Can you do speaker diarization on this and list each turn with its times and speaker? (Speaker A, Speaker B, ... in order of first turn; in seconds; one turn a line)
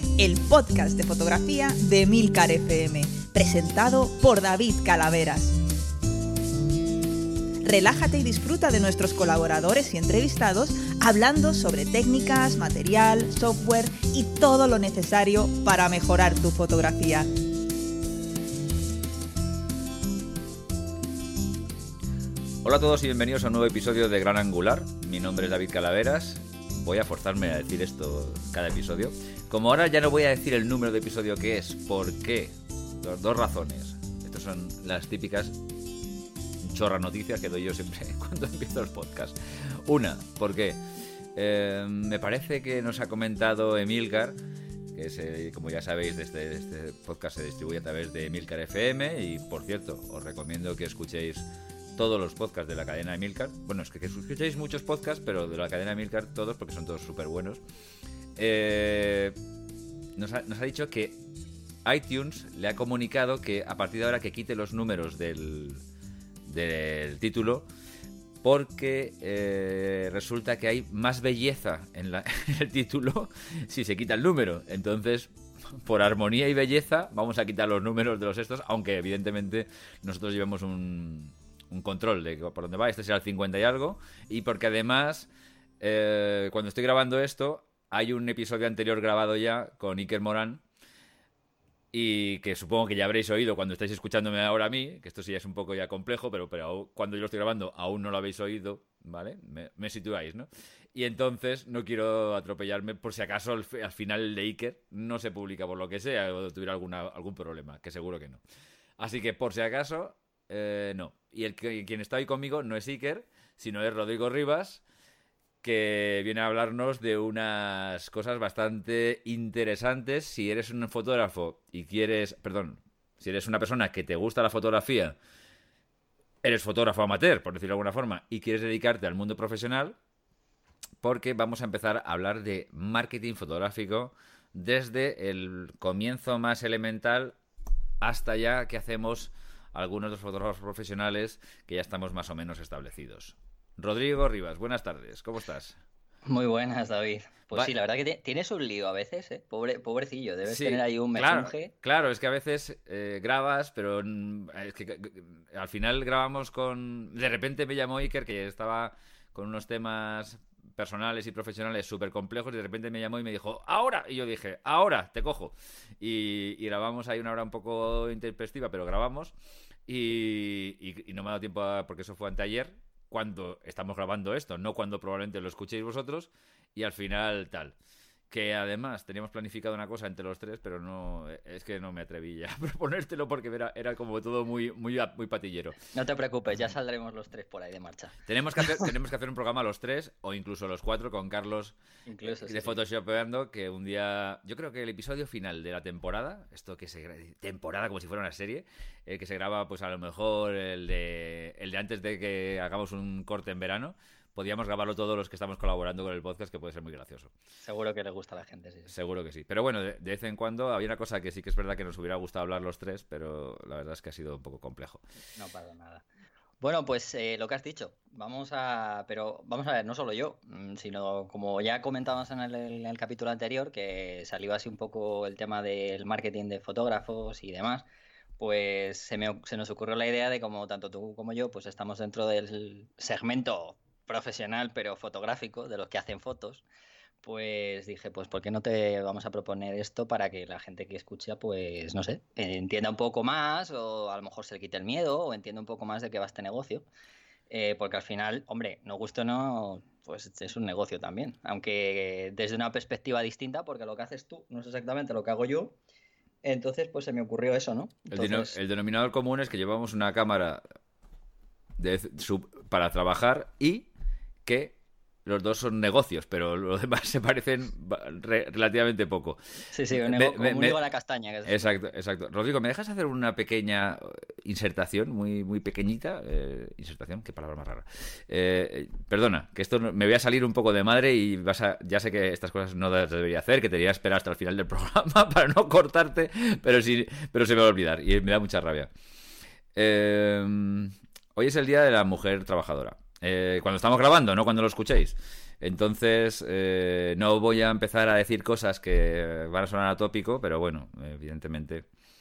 Speaker A: 0.2-5.6
Speaker A: 7.6-17.3
Speaker B: 22.6-35.6
Speaker B: 36.6-40.8
Speaker B: 41.3-44.4
Speaker B: 44.9-57.6
Speaker B: 58.4-59.4
Speaker B: 60.1-61.2
Speaker B: 61.8-65.8
Speaker B: 66.5-67.7
Speaker B: 68.4-85.3
Speaker B: 85.8-90.6
Speaker B: 91.9-108.4
Speaker B: 109.0-114.8
Speaker B: 115.6-125.2
Speaker B: 126.4-129.9
Speaker B: 131.0-137.3
Speaker B: 138.0-145.8
Speaker C: 146.2-151.7
Speaker B: 150.4-169.3
Speaker B: 169.9-177.7
Speaker B: 178.3-185.8
Speaker C: 185.9-188.9
Speaker B: 188.2-191.7
Speaker C: 192.1-192.8
Speaker B: 192.4-207.3
Speaker C: 207.6-208.9
Speaker B: 208.9-215.0
Speaker C: 215.4-216.0
Speaker C: 216.6-227.9
Speaker C: 228.4-236.6
Speaker C: 237.2-246.8
Speaker C: 247.5-255.8
Speaker C: 256.4-258.6
Speaker B: 258.1-260.6
Speaker B: 261.8-263.9
Speaker B: 264.4-269.4
Speaker C: 269.7-271.7
Speaker B: 270.0-270.8
Speaker B: 271.4-288.9
Speaker B: 289.7-301.9